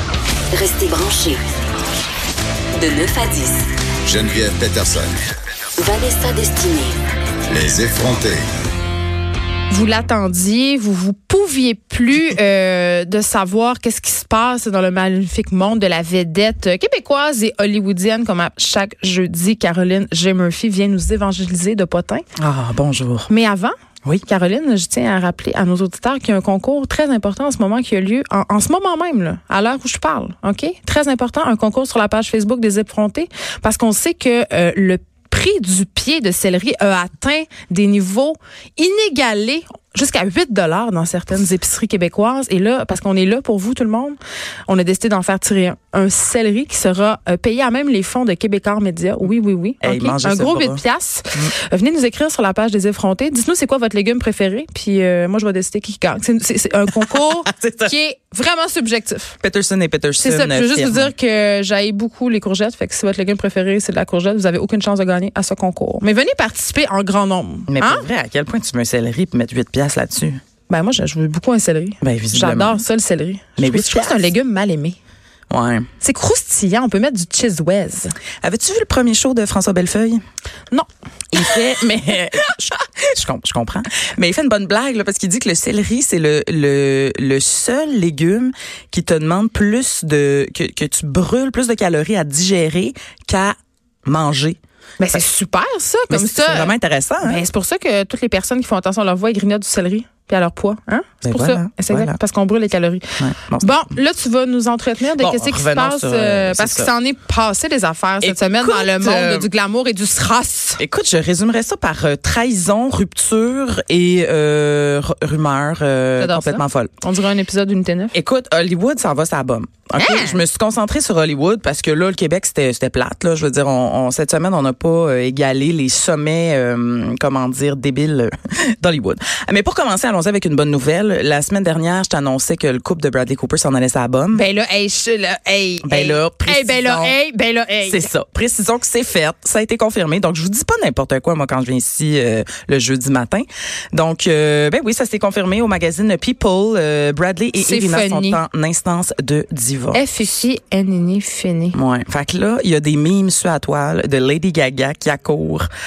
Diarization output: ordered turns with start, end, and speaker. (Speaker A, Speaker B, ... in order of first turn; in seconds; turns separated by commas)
Speaker A: 0.5-1.4, Speaker A: 2.8-3.7, Speaker B: 4.0-5.2, Speaker A: 5.8-7.0, Speaker B: 7.5-8.5, Speaker C: 9.7-22.2, Speaker D: 22.4-23.3, Speaker C: 23.3-59.4, Speaker D: 49.8-51.5, Speaker D: 56.9-57.9, Speaker D: 59.4-61.1, Speaker C: 60.2-68.1, Speaker D: 67.7-70.4, Speaker C: 70.7-75.0, Speaker D: 72.0-72.8, Speaker D: 73.6-74.3, Speaker D: 75.5-75.9, Speaker C: 76.0-78.2, Speaker D: 78.4-80.2, Speaker C: 80.7-81.6, Speaker D: 81.3-95.2, Speaker C: 95.0-110.8, Speaker D: 96.1-97.4, Speaker D: 101.2-102.2, Speaker D: 103.2-103.9, Speaker D: 105.1-106.9, Speaker D: 108.2-109.5, Speaker D: 110.8-116.9, Speaker C: 116.2-118.2, Speaker D: 118.1-134.4, Speaker C: 120.0-120.4, Speaker C: 134.3-138.1, Speaker D: 135.8-137.2, Speaker D: 137.8-150.0, Speaker C: 147.6-148.4, Speaker C: 149.9-151.8, Speaker D: 151.7-155.7